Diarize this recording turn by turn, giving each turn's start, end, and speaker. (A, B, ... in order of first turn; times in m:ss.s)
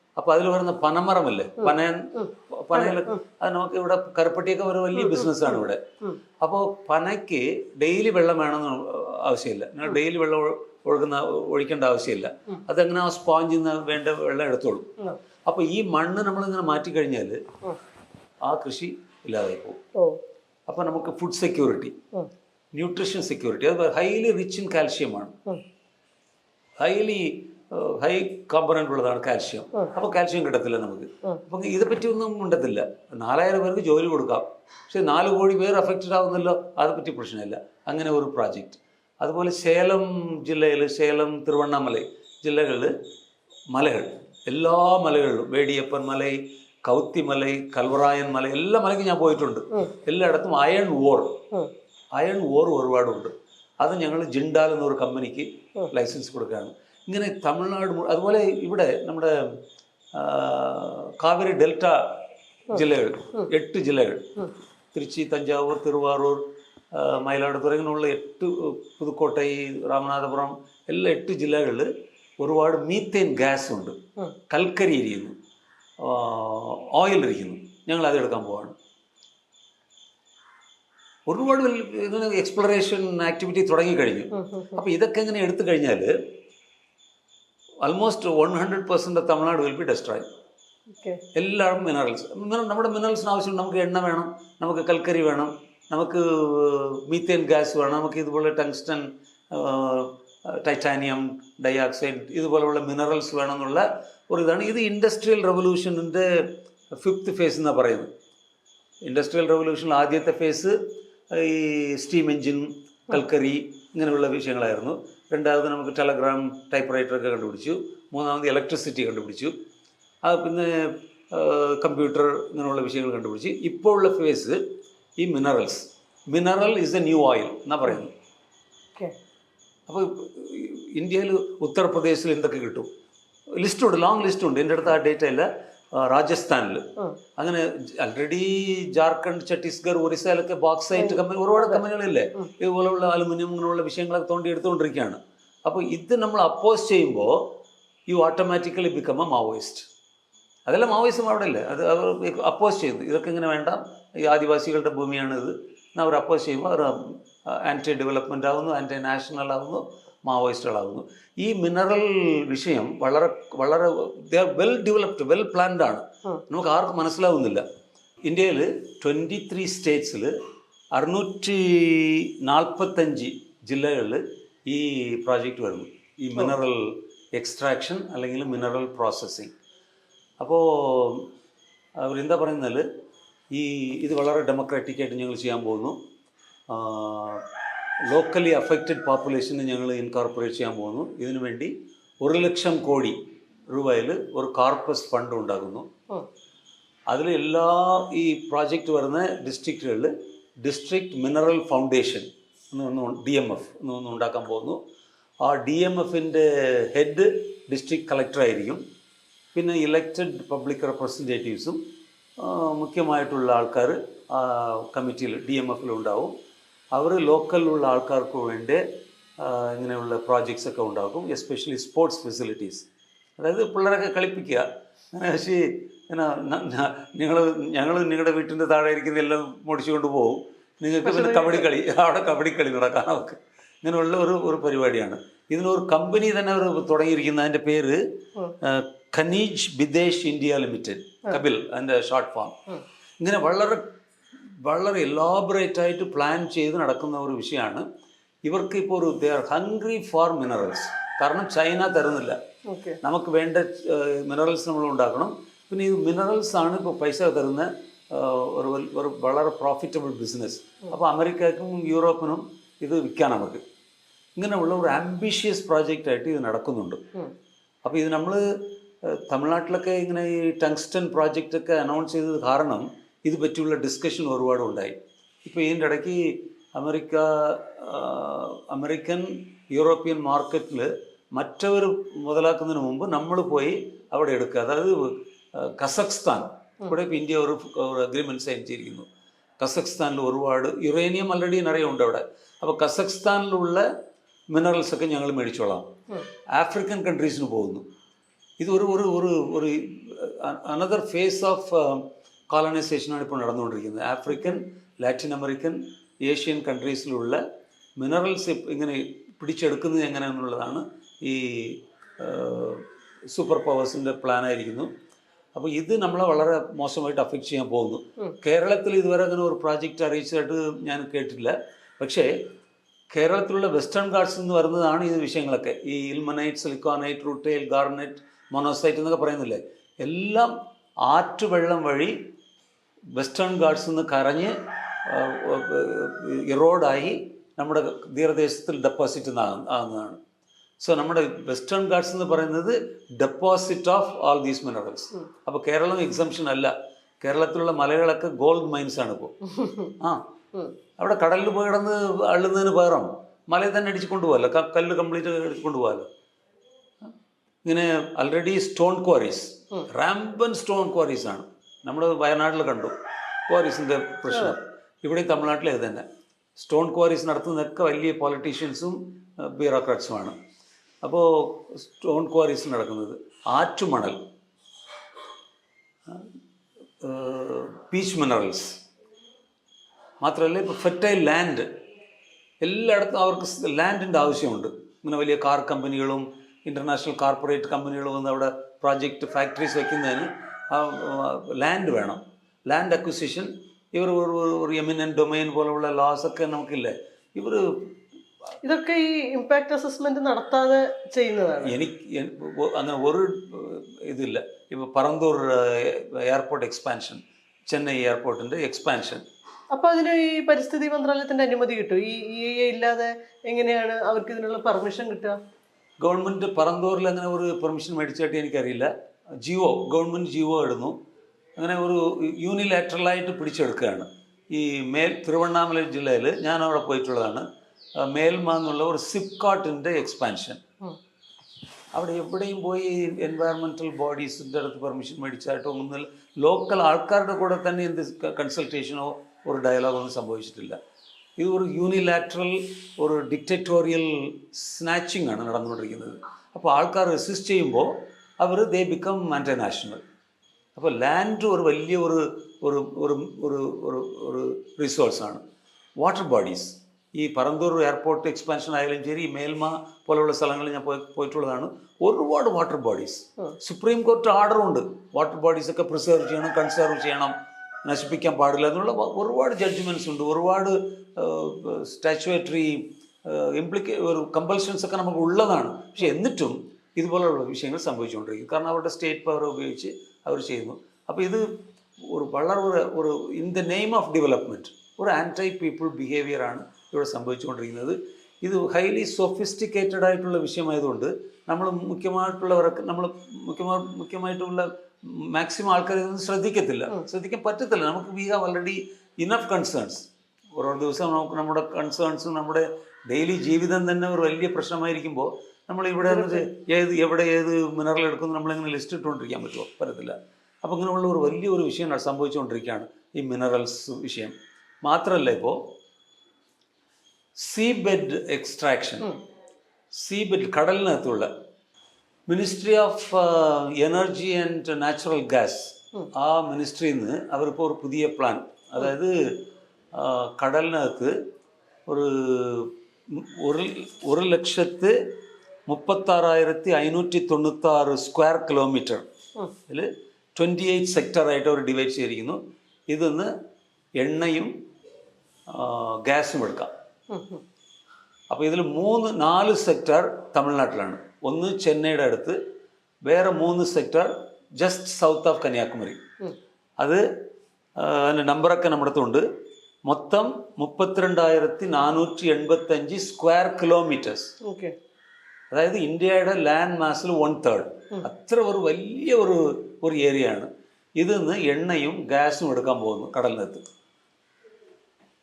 0:00.2-0:05.8 A
0:01.6-0:03.2 B
0:05.0-0:05.5 B
0:06.4-0:14.9 A
0:15.5-0:17.4 A
0:18.4-0:19.8 A
0:20.7-0:22.0 A
0:22.7-0:25.4 A
0:26.8-0:42.9 A
0:43.7-0:51.4 A
0:52.2-0:59.4 A
1:00.1-1:14.0 A
1:14.5-1:15.4 A
1:16.0-1:18.8 A
1:21.3-1:26.1 A
1:24.3-1:24.8 B
1:27.8-1:30.3 A
1:31.4-1:46.3 A
1:47.0-1:48.1 A
1:49.1-1:50.8 A
1:51.3-1:59.5 A
2:00.2-2:04.6 A
2:05.2-2:08.1 A
2:09.9-2:12.9 A
2:13.6-2:16.8 A
2:17.4-2:27.5 A
2:21.0-2:21.8 B
2:28.1-2:29.9 A
2:30.7-2:47.6 A
2:48.3-2:50.3 A
2:50.9-2:59.5 A
3:00.4-3:01.3 A
3:02.0-3:02.8 A
3:03.5-3:06.0 A
3:06.7-3:07.4 A
3:08.1-3:13.2 A
3:13.7-3:15.9 A
3:17.1-3:24.8 A
3:25.4-3:28.8 A
3:29.5-3:31.8 A
3:32.4-3:36.3 A
3:36.9-3:38.8 A
3:39.4-3:42.9 A
3:43.4-3:58.0 A
3:51.0-3:51.7 B
3:58.6-4:02.6 A
4:03.2-4:03.8 A
4:04.6-4:07.8 A
4:08.4-4:12.4 A
4:12.7-4:13.0 B
4:13.0-4:23.6 A
4:24.4-4:27.0 A
4:27.8-4:49.1 A
4:49.6-4:53.8 A
4:54.5-4:55.9 A
4:56.5-4:57.8 A
4:58.6-5:07.4 A
5:08.0-5:14.9 A
5:15.6-5:22.3 A
5:23.1-5:30.5 A
5:31.0-5:32.2 A
5:33.2-5:40.2 A
5:40.8-5:49.3 A
5:49.5-5:49.9 B
5:50.0-5:50.3 A
5:51.0-5:56.1 A
5:57.6-6:02.9 A
6:03.5-6:06.1 A
6:06.6-6:10.4 A
6:11.0-6:14.2 A
6:17.0-6:18.8 A
6:20.2-6:21.7 A
6:22.6-6:37.9 A
6:38.6-6:41.8 B
6:41.6-6:49.2 A
6:49.7-6:55.4 B
6:56.0-6:58.9 A
6:59.4-7:01.0 A
7:01.6-7:07.4 A
7:08.0-7:10.6 A
7:11.9-7:20.8 A
7:21.4-7:30.0 A
7:30.8-7:35.4 A
7:36.0-7:47.3 A
7:47.8-8:01.5 A
8:02.0-8:35.7 A
8:26.1-8:26.4 B
8:37.4-8:39.2 A
8:40.0-8:41.3 A
8:42.3-8:49.4 A
8:49.9-8:51.2 A
8:51.9-8:55.0 A
8:55.7-8:59.1 A
8:59.7-9:03.3 A
9:04.0-9:04.5 A
9:05.5-9:06.7 A
9:07.1-9:07.4 B
9:08.3-9:12.4 A
9:13.0-9:16.0 A
9:17.8-9:19.2 A
9:19.9-9:24.3 A
9:24.4-9:24.7 B
9:25.5-9:33.6 A